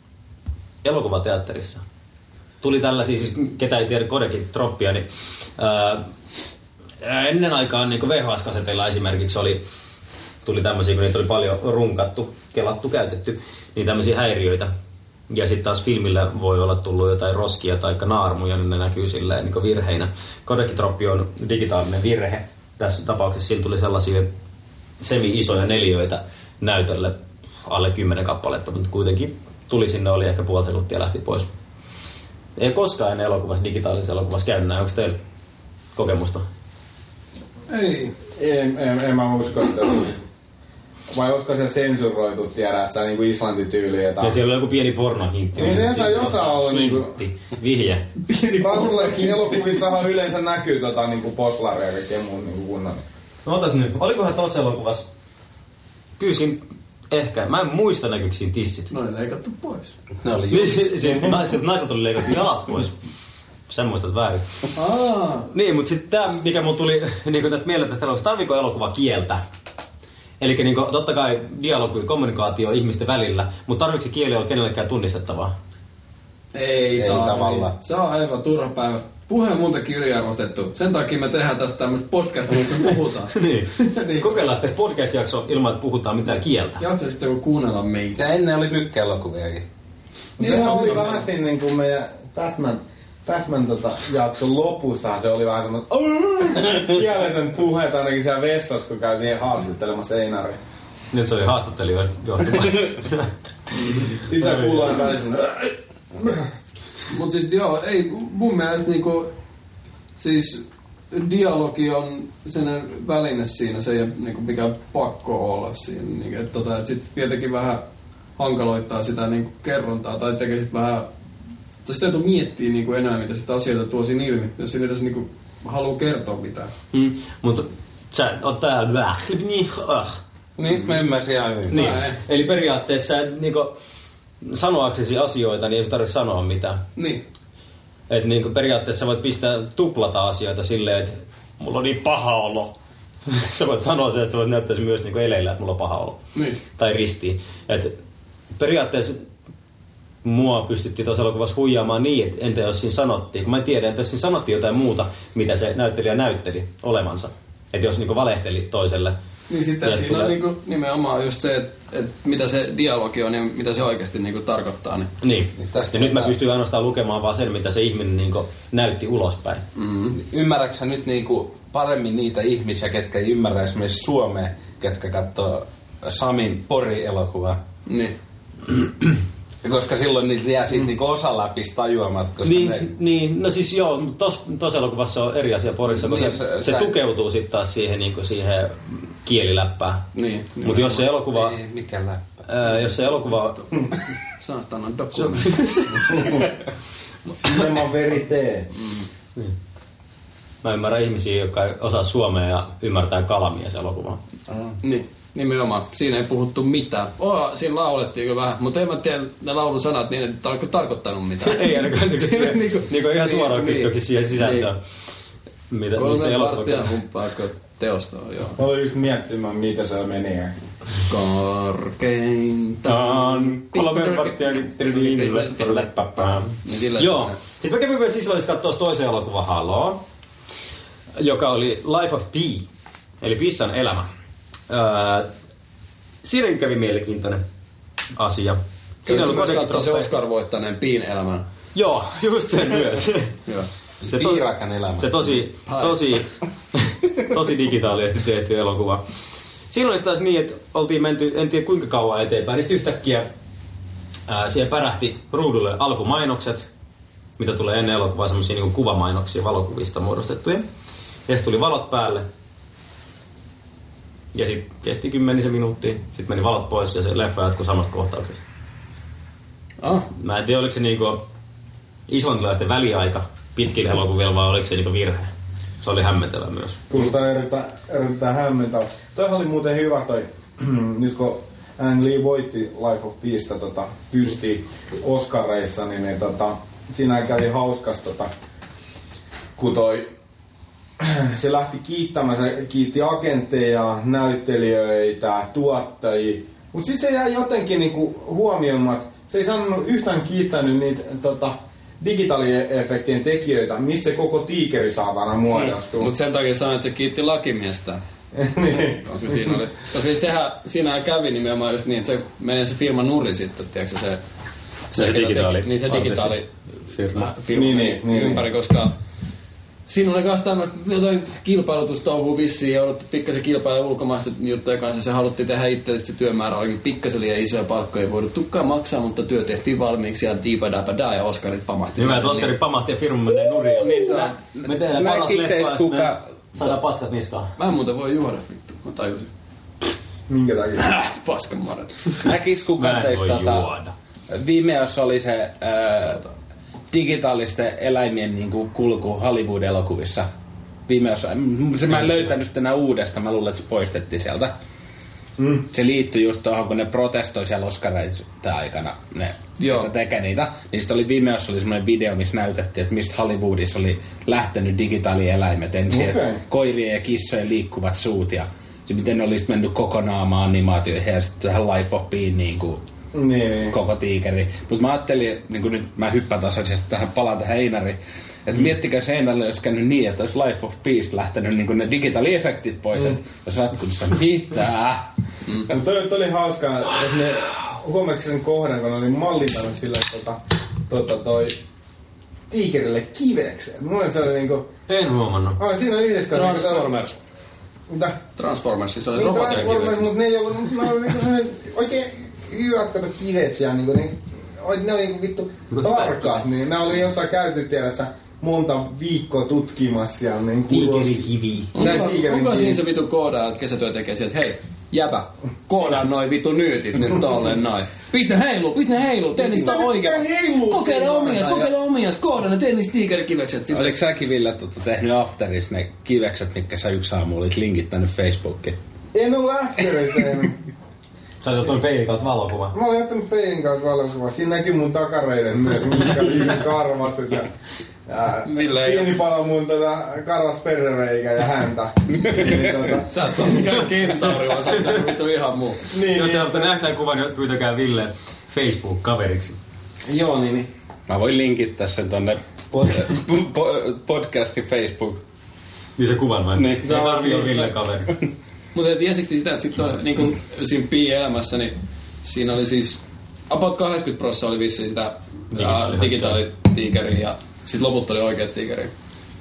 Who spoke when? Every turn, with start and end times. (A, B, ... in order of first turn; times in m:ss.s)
0:00.8-0:01.8 A
0:02.6-0:05.0 A
0:05.6-0:06.0 A
0:07.0-0:09.6 A
0:10.4-0:14.7 A
0:15.3-0:24.3 A
0:25.0-0:31.5 A
0:32.6-0:35.2 A
0:35.9-0:36.4 A
0:37.7-0:38.1 B
0:38.3-0:40.2 C
0:41.1-0:44.4 C
0:44.2-0:48.1 A
0:45.6-0:47.1 C
0:48.2-0:49.8 B
0:48.6-0:53.0 C
0:53.4-0:55.0 A
0:56.2-0:58.9 A
0:58.9-0:59.9 B
1:00.2-1:01.3 D
1:00.5-1:03.0 A
1:03.7-1:04.4 A
1:04.7-1:05.5 B
1:05.5-1:09.4 A
1:10.4-1:15.5 A
1:16.5-1:24.4 B
1:16.9-1:17.8 D
1:23.3-1:26.8 A
1:26.8-1:28.3 B
1:28.2-1:29.6 D
1:30.4-1:40.6 C
1:30.4-1:31.2 B
1:41.1-1:43.3 A
1:43.9-1:46.4 C
1:44.4-1:44.8 A
1:47.1-1:49.3 B
1:50.2-1:57.8 B
1:58.4-2:01.1 B
2:01.8-2:06.7 B
2:06.9-2:10.2 A
2:10.6-2:12.0 D
2:11.7-2:13.7 A
2:11.7-2:12.2 B
2:14.4-2:16.8 A
2:17.0-2:17.2 B
2:18.1-2:22.7 A
2:23.2-2:26.2 A
2:26.3-2:26.6 B
2:26.7-2:27.9 A
2:28.6-2:29.2 A
2:30.2-2:39.2 A
2:39.5-2:45.1 B
2:39.8-2:40.4 A
2:45.2-2:49.6 A
2:45.6-2:46.3 D
2:49.8-2:50.2 B
2:50.1-2:57.6 D
2:57.9-2:58.1 B
2:59.6-3:02.9 D
3:02.4-3:10.1 A
3:05.9-3:06.9 D
3:10.1-3:11.0 B
3:10.6-3:11.6 A
3:11.3-3:12.4 D
3:12.5-3:13.7 A
3:14.4-3:16.1 B
3:15.1-3:16.0 A
3:16.1-3:16.5 C
3:17.3-3:18.7 C
3:18.7-3:19.0 B
3:20.6-3:24.2 A
3:24.8-3:34.7 B
3:31.4-3:34.8 A
3:35.7-3:36.9 A
3:35.9-3:38.6 B
3:38.6-3:40.6 C
3:41.0-3:47.4 B
3:42.8-3:50.0 A
3:51.2-3:52.7 A
3:53.2-3:54.1 A
3:54.7-3:55.3 A
3:56.2-3:57.4 A
3:58.1-4:00.1 A
3:59.0-4:01.4 B
4:01.7-4:03.4 A
4:04.0-4:05.2 D
4:04.1-4:04.4 A
4:05.0-4:09.0 A
4:05.6-4:06.0 B
4:09.7-4:13.3 A
4:14.3-4:16.7 A
4:17.4-4:20.6 A
4:21.3-4:22.3 A
4:24.3-4:28.4 A
4:29.8-4:30.1 B
4:30.1-4:31.2 A
4:32.1-4:35.3 A
4:35.8-4:37.0 A
4:36.9-4:48.3 C
4:49.6-4:50.1 C
4:51.0-5:06.1 C
5:05.5-5:08.0 B
5:08.3-5:09.0 C
5:09.0-5:14.2 B
5:14.9-5:16.5 B
5:14.9-5:17.3 A
5:17.1-5:18.9 B
5:17.5-5:18.4 C
5:19.9-5:32.6 B
5:32.0-5:37.5 A
5:33.7-5:34.4 B
5:34.4-5:36.3 D
5:37.6-5:39.3 B
5:40.3-5:40.9 C
5:40.8-5:42.3 B
5:42.2-5:43.7 D
5:42.8-5:43.9 A
5:44.3-5:46.3 D
5:46.9-5:50.3 D
5:50.9-5:54.5 D
5:55.4-5:55.6 C
5:55.6-6:12.8 D
5:59.6-5:59.9 B
6:05.9-6:06.4 C
6:13.1-6:13.8 C
6:13.7-6:25.1 D
6:25.7-6:31.6 C
6:32.5-6:34.7 C
6:34.9-6:35.6 A
6:35.6-6:36.9 C
6:36.3-6:37.2 B
6:37.9-6:38.2 C
6:38.4-6:40.1 B
6:39.1-6:52.8 C
6:45.7-6:46.4 A
6:50.7-6:51.8 A
6:51.7-7:04.0 B
6:59.4-7:01.7 C
7:03.7-7:08.8 D
7:09.1-7:10.6 C
7:11.4-7:12.7 A
7:12.7-7:17.5 C
7:18.0-7:23.7 C
7:18.4-7:19.2 B
7:22.3-7:25.8 B
7:25.9-7:26.7 C
7:26.1-7:29.6 A
7:30.0-7:30.7 C
7:31.1-7:35.2 D
7:36.0-7:38.1 A
7:36.6-7:37.0 D
7:36.8-7:37.7 C
7:38.7-7:48.9 B
7:45.5-7:46.4 A